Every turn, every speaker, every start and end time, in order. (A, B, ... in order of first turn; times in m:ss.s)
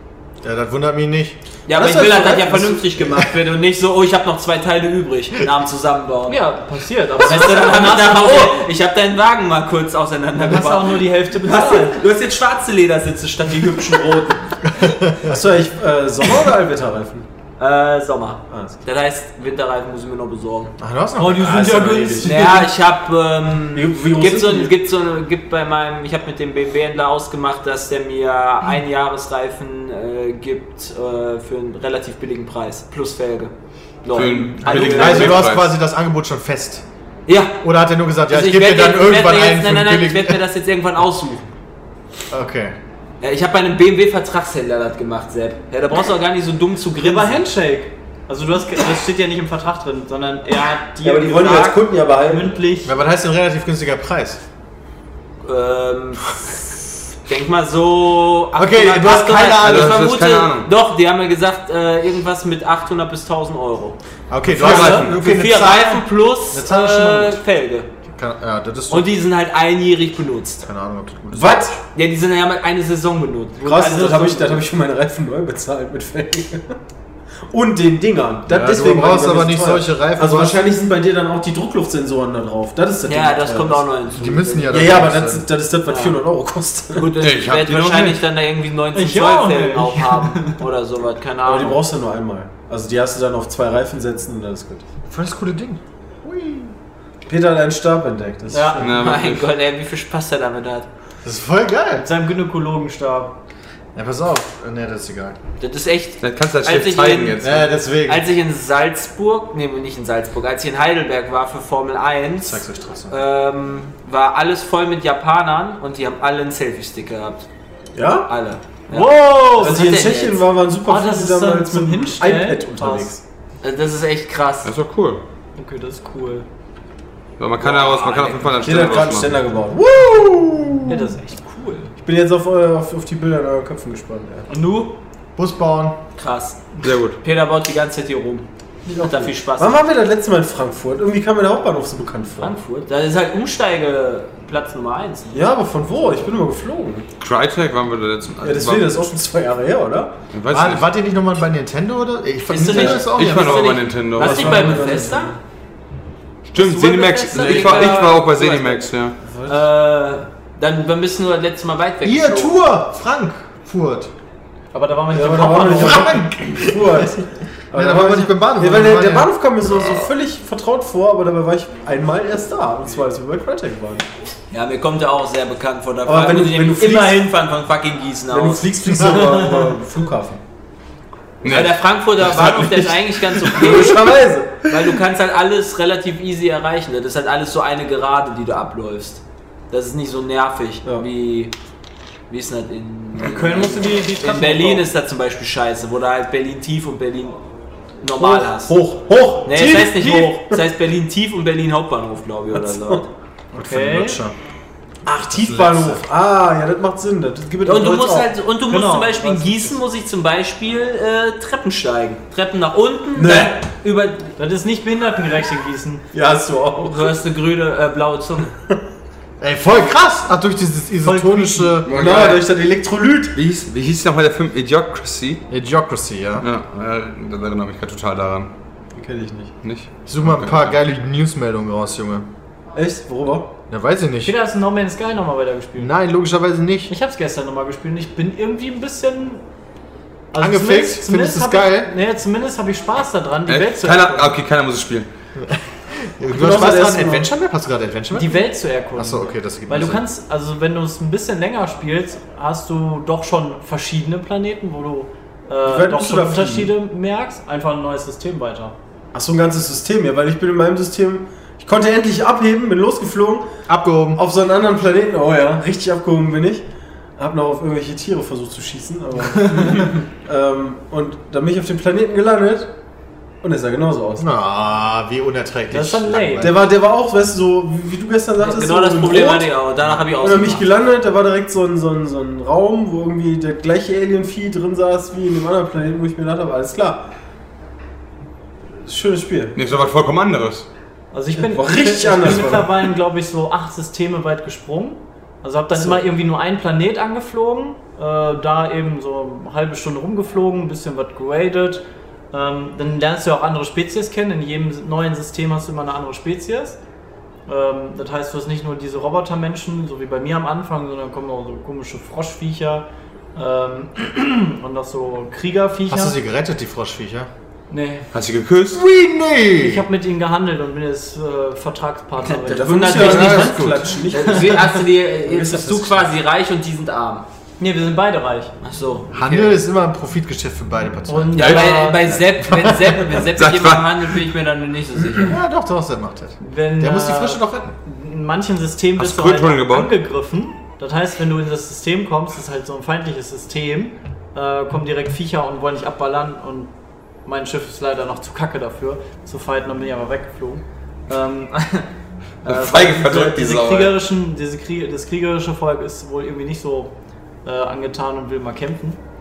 0:00.4-0:01.4 A
0:01.7-0:06.4 B
0:01.7-0:02.9 C
0:06.3-0:08.6 D
0:07.2-0:14.5 B
0:10.4-0:12.0 D
0:14.8-0:15.4 A
0:15.2-0:17.3 C
0:17.6-0:20.8 B
0:20.8-0:22.2 A
0:21.2-0:22.4 D
0:21.4-0:22.7 C
0:22.2-0:33.5 B
0:23.7-0:24.7 C
0:34.0-0:35.5 B
0:34.1-0:35.7 E
0:34.6-0:36.8 A
0:37.3-0:37.6 B
0:37.6-0:40.4 A
0:38.3-0:41.5 B
0:42.3-0:42.8 A
0:43.2-0:47.4 B
0:47.0-0:53.0 D
0:51.0-0:52.6 C
0:52.8-0:54.4 A
0:55.4-1:04.0 B
0:58.6-1:00.0 A
0:59.5-1:00.7 E
1:04.3-1:07.4 A
1:04.6-1:05.2 E
1:04.6-1:07.9 B
1:04.6-1:05.1 C
1:08.1-1:09.1 A
1:08.9-1:10.6 B
1:10.6-1:11.8 A
1:11.3-1:11.8 C
1:11.8-1:14.1 B
1:13.6-1:14.6 D
1:13.6-1:16.8 C
1:17.5-1:23.9 C
1:18.5-1:20.6 A
1:23.1-1:24.9 B
1:24.1-1:25.5 A
1:24.7-1:27.1 C
1:25.9-1:26.2 B
1:27.0-1:31.8 B
1:27.2-1:28.2 E
1:28.9-1:30.6 D
1:31.4-1:34.8 C
1:35.1-1:36.7 A
1:37.3-1:39.0 C
1:38.5-1:38.9 D
1:38.8-1:39.5 E
1:38.8-1:40.9 B
1:41.2-1:42.1 A
1:42.0-1:43.4 D
1:44.0-1:45.4 A
1:45.6-1:47.5 B
1:46.2-1:47.7 E
1:47.4-1:48.2 A
1:48.0-1:57.4 B
1:52.4-1:53.2 A
1:58.0-1:58.3 C
1:58.2-2:00.5 B
1:58.9-2:00.0 D
1:59.6-2:03.2 C
2:00.9-2:03.1 D
2:03.6-2:04.7 B
2:04.6-2:05.2 E
2:05.6-2:06.5 D
2:07.4-2:09.4 E
2:07.6-2:08.9 B
2:08.6-2:11.1 C
2:10.9-2:11.9 D
2:12.0-2:14.5 C
2:14.5-2:14.9 B
2:15.4-2:16.0 A
2:16.2-2:18.5 B
2:16.8-2:17.2 E
2:18.9-2:22.6 C
2:19.0-2:19.8 B
2:22.4-2:25.5 B
2:25.3-2:27.1 C
2:27.2-2:29.0 E
2:28.4-2:30.2 C
2:30.3-2:30.8 E
2:30.5-2:33.8 A
2:32.5-2:35.4 B
2:32.7-2:34.8 E
2:34.2-2:35.4 C
2:36.5-2:39.2 E
2:36.6-2:38.8 B
2:37.4-2:37.9 C
2:39.2-2:39.6 C
2:39.5-2:42.6 B
2:42.0-2:44.1 A
2:44.7-2:46.2 D
2:45.1-2:54.1 C
2:45.7-2:47.1 A
2:47.7-2:50.1 A
2:54.5-2:59.2 B
2:56.0-2:57.2 C
2:58.3-3:00.4 C
2:59.0-2:59.7 D
3:01.4-3:01.8 E
3:01.4-3:11.5 B
3:03.4-3:04.7 C
3:12.3-3:17.4 B
3:13.2-3:14.9 D
3:18.0-3:18.8 B
3:18.2-3:20.6 C
3:19.4-3:23.1 B
3:22.5-3:23.0 C
3:23.5-3:24.4 A
3:23.6-3:24.2 D
3:25.1-3:28.3 C
3:25.3-3:26.0 A
3:27.6-3:34.3 B
3:28.7-3:29.7 D
3:33.2-3:33.6 C
3:34.4-3:36.0 D
3:36.1-3:37.2 C
3:36.8-3:38.5 B
3:39.4-3:42.2 A
3:41.0-3:41.8 D
3:41.9-3:42.5 E
3:41.9-3:43.4 C
3:43.4-3:45.4 E
3:45.5-3:46.5 A
3:46.4-3:48.5 E
3:49.0-3:49.5 C
3:49.6-3:50.7 E
3:50.1-3:52.3 A
3:52.8-3:53.5 C
3:53.7-3:54.3 A
3:54.2-3:55.9 D
3:55.8-3:56.9 A
3:56.9-3:59.4 D
4:00.3-4:04.3 D
4:00.4-4:01.9 A
4:03.5-4:05.1 E
4:05.4-4:10.0 A
4:06.3-4:07.3 C
4:08.1-4:18.8 D
4:15.6-4:16.7 C
4:19.1-4:23.5 C
4:23.7-4:24.2 A
4:24.2-4:26.7 C
4:27.2-4:32.7 C
4:33.4-4:34.3 C
4:34.2-4:36.7 A
4:35.7-4:36.5 D
4:36.4-4:39.6 C
4:38.4-4:40.7 B
4:40.2-4:47.1 C
4:48.8-4:49.6 C
4:49.6-4:50.7 E
4:51.1-5:06.8 D
4:51.4-4:52.9 C
4:55.8-4:56.0 C
5:07.5-5:16.2 D
5:15.9-5:17.3 A
5:17.7-5:18.1 D
5:18.1-5:18.8 E
5:18.7-5:19.9 A
5:19.6-5:23.5 D
5:22.2-5:23.6 B
5:22.5-5:26.1 C
5:23.0-5:24.0 A
5:24.1-5:27.2 B
5:24.2-5:24.7 D
5:27.6-5:28.5 D
5:28.6-5:29.6 B
5:29.1-5:31.7 A
5:31.1-5:32.1 D
5:31.4-5:35.4 B
5:31.4-5:31.8 E
5:32.4-5:33.1 A
5:33.4-5:34.0 E
5:35.2-5:37.7 A
5:36.4-5:46.7 D
5:39.0-5:39.9 E
5:47.3-5:51.9 D
5:52.4-5:54.0 E
5:52.4-5:56.9 D
5:57.4-5:59.0 D